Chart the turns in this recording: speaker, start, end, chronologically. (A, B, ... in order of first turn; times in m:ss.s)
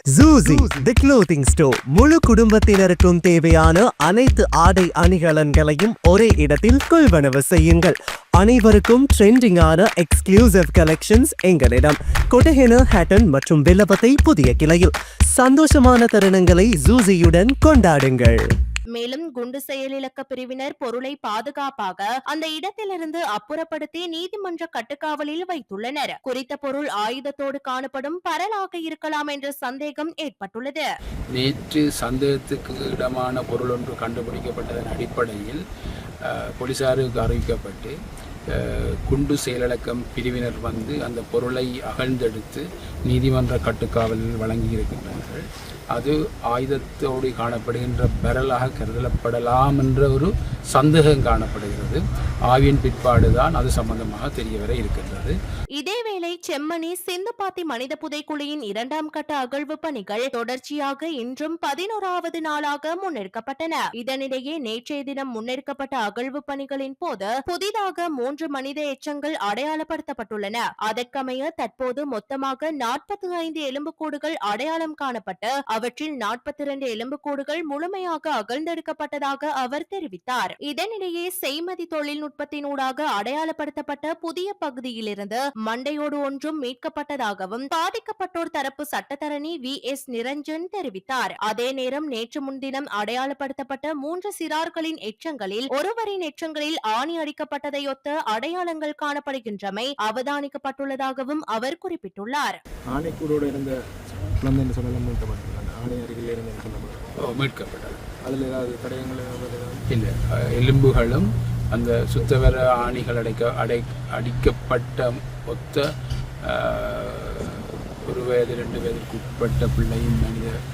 0:00.1-0:18.4 A
0:18.9-0:30.8 B
0:31.3-0:35.6 C
0:36.2-0:37.9 C
0:38.5-0:55.4 C
0:55.8-1:42.6 B
1:42.9-1:43.8 D
1:44.4-1:47.1 D
1:47.3-1:48.2 C
1:48.2-1:49.8 D
1:49.9-1:55.8 C
1:56.4-2:00.6 C